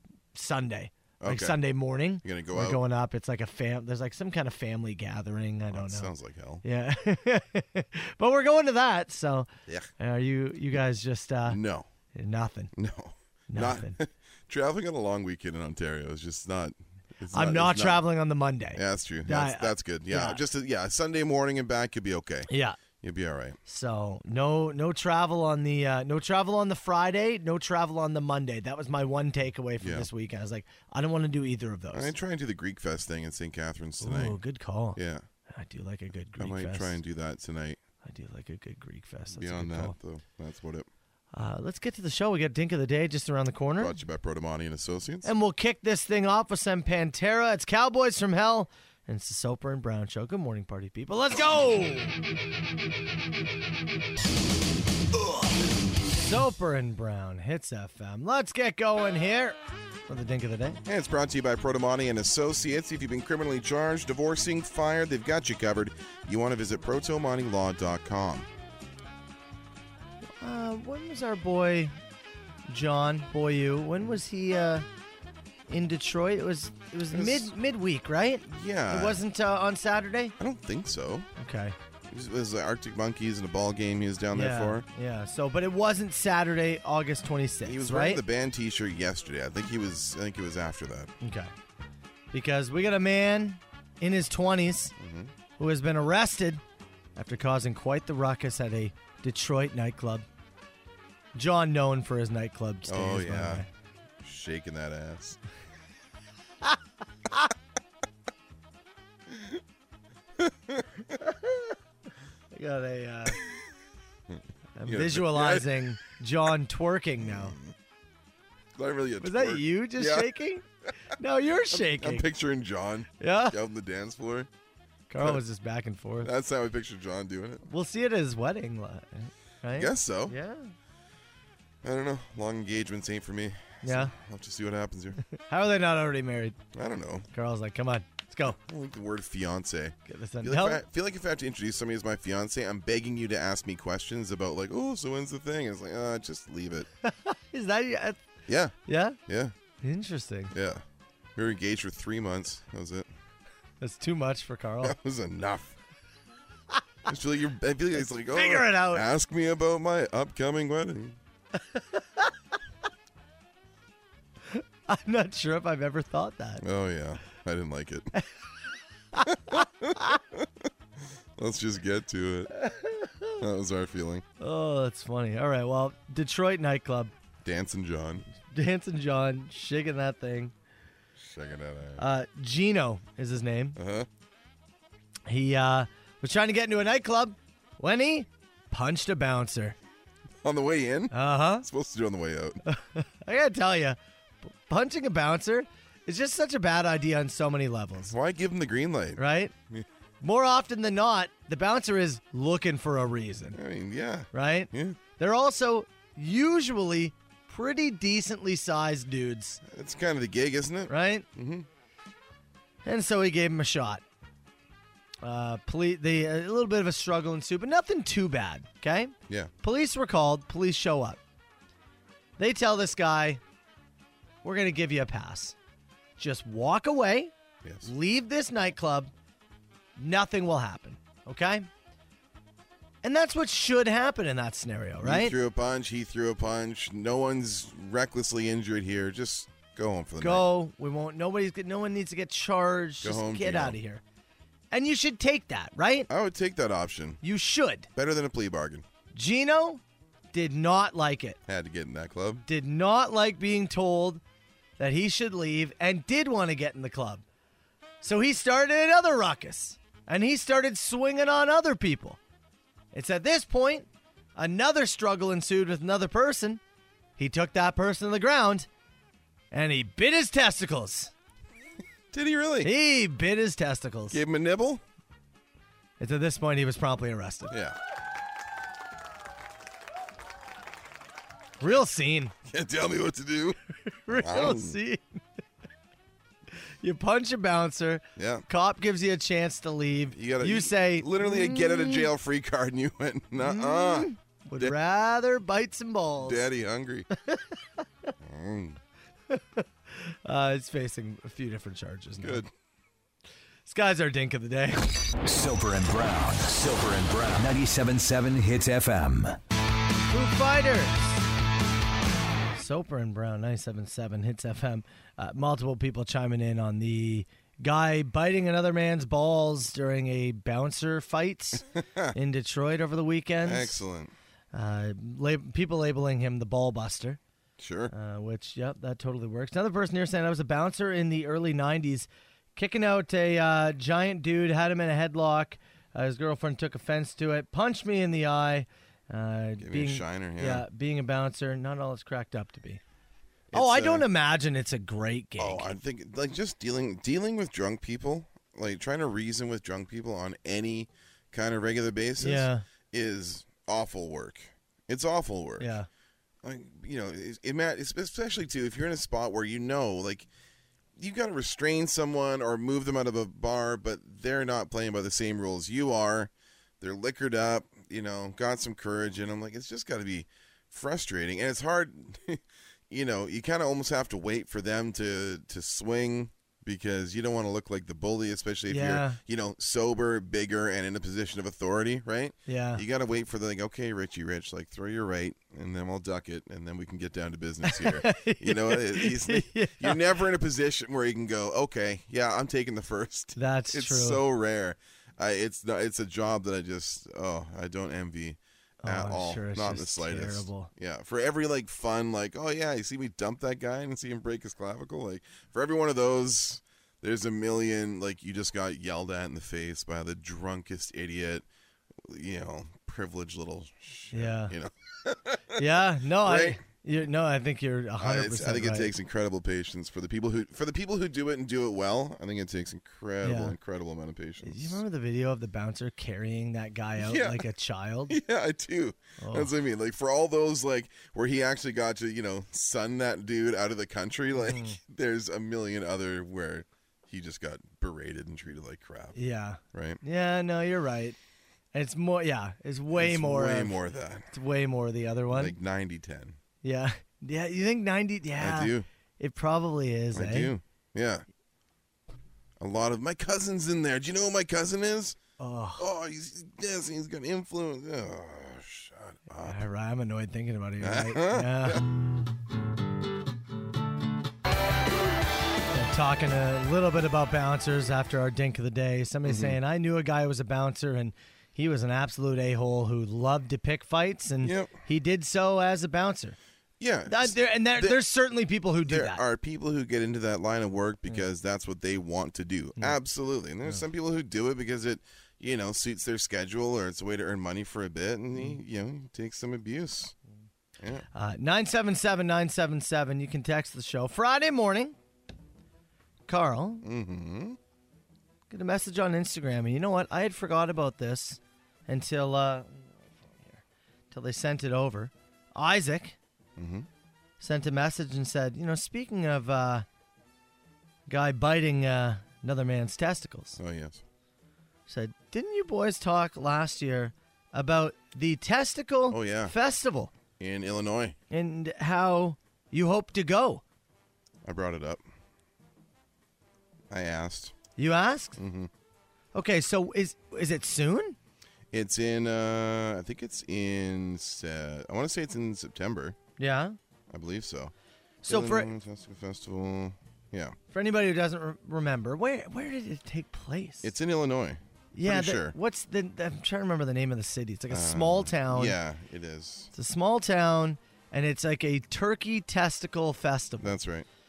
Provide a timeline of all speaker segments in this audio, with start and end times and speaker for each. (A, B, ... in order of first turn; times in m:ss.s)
0:00.3-0:06.1 A
0:01.2-0:01.6 B
0:02.2-0:02.8 B
0:05.7-0:06.6 B
0:06.6-0:11.6 A
0:11.4-0:11.9 B
0:12.1-0:12.7 A
0:12.7-0:18.0 B
0:13.5-0:14.0 A
0:17.3-0:20.4 A
0:18.8-0:22.5 B
0:22.5-0:22.8 A
0:23.0-0:23.6 B
0:23.6-0:32.1 A
0:29.8-0:30.1 B
0:31.9-0:34.4 B
0:34.0-0:37.0 A
0:35.0-0:35.2 B
0:36.4-0:37.8 B
0:38.0-0:40.0 A
0:39.3-0:40.9 B
0:41.3-0:44.0 A
0:43.8-0:45.3 B
0:45.2-0:52.2 A
0:56.2-1:00.8 A
1:00.8-1:08.5 B
1:10.4-1:11.9 A
1:12.7-1:14.8 A
1:15.7-1:20.3 A
1:17.1-1:17.5 B
1:18.5-1:19.2 B
1:20.4-1:21.3 B
1:21.4-1:21.8 A
1:22.1-1:24.8 B
1:24.3-1:28.2 A
1:27.6-1:31.1 B
1:31.2-1:31.5 A
1:32.3-1:34.9 A
1:35.0-1:35.3 B
1:35.6-1:36.6 A
1:37.2-1:40.2 A
1:41.4-1:43.7 A
1:42.9-1:43.6 B
1:44.2-1:45.4 B
1:49.3-1:49.6 B
1:50.4-1:51.0 B
1:52.5-1:53.4 A
1:54.3-1:55.9 B
1:54.8-1:57.6 A
1:57.2-1:57.7 B
1:58.7-2:00.3 B
1:59.2-2:00.6 A
2:01.2-2:02.3 A
2:01.7-2:04.5 B
2:03.2-2:03.6 A
2:05.1-2:06.3 A
2:06.2-2:07.6 B
2:07.7-2:10.7 A
2:09.7-2:10.3 B
2:11.8-2:15.2 B
2:13.8-2:14.1 A
2:15.4-2:16.6 A
2:16.7-2:17.3 B
2:17.3-2:18.6 A
2:18.4-2:26.9 B
2:20.1-2:20.8 A
2:27.0-2:28.2 A
2:28.5-2:28.7 B
2:28.8-2:29.2 A
2:29.3-2:29.5 B
2:29.8-2:30.5 A
2:30.5-2:30.8 B
2:31.4-2:33.1 B
2:33.8-2:35.0 A
2:34.8-2:35.8 B
2:37.0-2:41.2 B
2:38.0-2:39.0 A
2:41.6-2:42.3 A
2:44.5-2:46.6 A
2:46.6-2:48.1 B
2:49.1-2:50.2 A
2:49.2-2:50.7 B
2:51.4-2:52.5 B
2:52.5-2:53.4 A
2:53.4-2:54.2 B
2:54.4-2:57.1 A
2:57.4-2:58.2 B
2:58.5-3:00.5 A
3:01.2-3:02.0 B
3:02.0-3:03.8 A
3:03.8-3:04.1 B
3:05.3-3:09.8 A
3:10.4-3:12.6 B
3:11.1-3:11.6 A
3:12.6-3:18.1 A
3:18.0-3:19.8 B
3:19.2-3:19.5 A
3:20.2-3:23.6 A
3:23.5-3:25.0 B
3:24.3-3:29.6 A
3:29.6-3:31.7 B
3:30.9-3:31.2 A
3:32.8-3:34.0 A
3:35.2-3:41.2 A
3:42.4-3:43.4 A
3:44.4-3:45.6 A
3:46.2-3:47.3 A
3:47.6-3:47.9 B
3:47.8-3:49.1 A
3:50.0-3:51.7 A
3:53.0-3:55.3 A
3:55.0-4:00.5 B
4:00.2-4:04.0 A
4:03.0-4:03.8 B
4:04.7-4:06.1 A
4:06.1-4:07.2 B
4:07.2-4:07.9 A
4:07.9-4:08.8 B
4:09.1-4:09.8 A
4:10.3-4:11.4 A
4:11.5-4:12.4 B
4:12.5-4:14.2 A
4:14.8-4:17.2 A
4:18.0-4:22.2 A
4:22.9-4:26.6 A
4:27.2-4:28.7 A
4:29.5-4:31.1 A
4:32.1-4:32.7 B
4:32.6-4:34.2 A
4:34.1-4:34.8 B
4:36.0-4:37.5 A
4:37.5-4:37.8 B
4:41.6-4:42.3 A
4:42.4-4:43.6 B
4:43.9-4:45.0 A
4:44.1-4:44.8 B
4:46.8-4:52.0 A
4:48.2-4:48.4 B
4:50.1-4:54.7 B
4:53.4-4:56.4 A
4:56.2-4:57.1 B
4:57.2-4:57.4 A
4:58.2-4:58.8 B
4:59.3-5:02.4 A
5:02.2-5:02.5 B
5:03.6-5:05.0 A
5:05.2-5:09.4 C
5:10.1-5:11.2 A
5:12.5-5:21.6 A
5:21.7-5:22.1 B
5:22.1-5:23.8 A
5:23.4-5:24.1 B
5:24.5-5:27.2 A
5:27.6-5:27.9 B
5:27.9-5:42.8 A
5:39.6-5:40.6 B
5:43.5-5:44.1 B
5:43.5-5:45.7 A
5:45.4-5:55.7 B
5:52.2-5:52.6 A
5:55.6-5:55.9 A
5:56.4-6:00.3 B
6:01.0-6:51.4 B
6:18.7-6:19.2 A
6:22.5-6:22.8 A
6:27.6-6:30.0 A
6:33.4-6:34.2 A
6:38.8-6:40.7 A
6:52.0-6:55.6 B
6:54.1-6:54.5 A
6:55.6-6:58.9 A
6:56.2-6:56.6 B
6:58.0-7:04.8 B
7:03.2-7:03.6 A
7:04.4-7:08.2 A
7:07.0-7:07.5 B
7:08.1-7:19.2 B
7:09.2-7:09.5 A
7:14.4-7:14.8 A
7:19.1-7:21.2 A
7:19.7-7:20.0 B
7:21.7-7:23.8 A
7:22.9-7:24.3 B
7:24.3-7:25.5 A
7:25.3-7:26.4 B
7:26.6-7:30.5 A
7:28.4-7:28.8 B
7:30.1-7:31.2 B
7:32.6-7:35.2 B
7:35.4-7:35.8 A
7:35.8-7:39.6 B
7:39.4-7:41.8 A
7:40.8-7:41.8 B
7:45.7-7:56.4 A
7:49.2-7:49.6 B
7:54.4-7:54.7 B
7:56.8-7:58.0 B
7:57.1-7:59.2 A
7:58.8-8:10.1 B
8:10.8-8:11.0 B
8:11.1-8:14.9 A
8:16.3-8:16.8 A
8:16.8-8:17.6 B
8:18.5-8:26.2 A
8:26.6-8:26.9 B
8:27.4-8:29.8 A
8:31.1-8:33.6 A
8:33.6-8:34.0 B
8:34.9-8:40.1 A
8:39.1-8:39.5 B
8:40.4-8:41.2 B
8:41.3-8:43.6 A
8:44.4-8:45.0 B
8:46.9-8:47.5 B
8:47.8-8:48.4 A
8:48.4-8:48.7 B
8:49.3-8:51.2 A
8:51.7-8:56.2 B
8:56.4-8:56.8 A
8:57.1-8:57.7 B
8:58.2-8:58.7 A
8:58.2-9:00.6 B
9:00.7-9:03.9 A
9:03.8-9:05.5 B
9:04.9-9:08.8 A
9:07.7-9:09.7 B
9:09.7-9:13.7 A
9:13.6-9:14.1 B